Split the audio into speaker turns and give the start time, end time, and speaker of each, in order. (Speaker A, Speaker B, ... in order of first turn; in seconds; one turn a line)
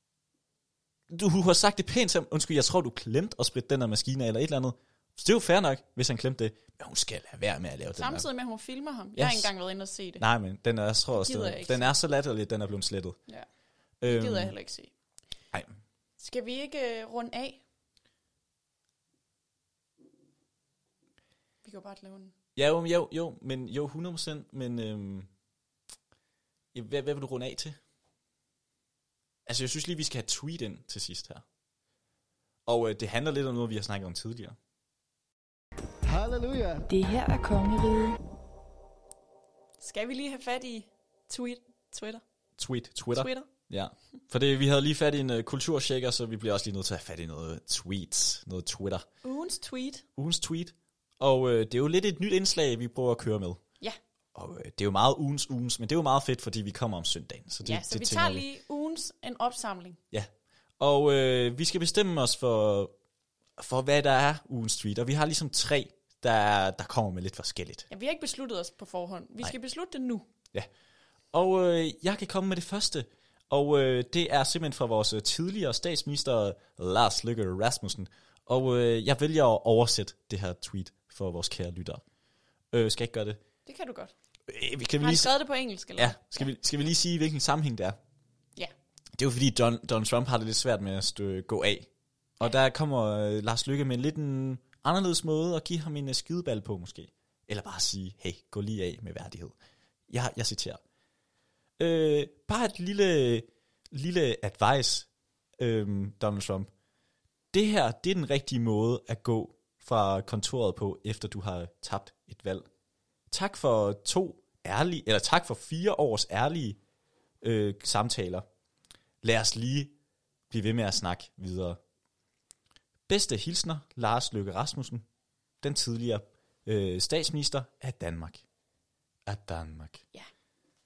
Speaker A: 1.1-8.3
Speaker B: 8.0-10.2
Speaker A: 9.2-9.5
Speaker A: 10.2-13.2
Speaker B: 11.1-11.9
Speaker A: 14.0-14.5
Speaker B: 14.0-14.9
Speaker B: 16.2-17.6
Speaker B: 21.6-22.3
Speaker A: 22.6-25.3
Speaker A: 26.7-27.8
Speaker A: 29.4-31.4
Speaker A: 32.6-34.6
Speaker C: 36.0-38.2
Speaker B: 39.8-42.2
Speaker A: 42.6-49.0
Speaker B: 43.1-43.5
Speaker B: 49.2-50.0
Speaker A: 50.2-53.6
Speaker A: 54.3-58.4
Speaker B: 57.6-60.0
Speaker A: 60.1-62.9
Speaker A: 63.6-67.8
Speaker B: 67.9-70.2
Speaker A: 71.3-82.0
Speaker A: 82.7-83.4
Speaker B: 83.7-84.1
Speaker A: 84.5-85.3
Speaker B: 85.0-86.4
Speaker A: 86.0-88.0
Speaker A: 89.2-99.5
Speaker A: 100.1-100.8
Speaker A: 101.8-105.1
Speaker A: 105.6-106.7
Speaker A: 107.5-112.7
Speaker A: 113.3-116.8
Speaker A: 117.4-118.4
Speaker A: 119.2-119.9
Speaker A: 120.5-121.8
Speaker A: 123.1-125.0
Speaker A: 125.6-128.4
Speaker A: 129.2-130.0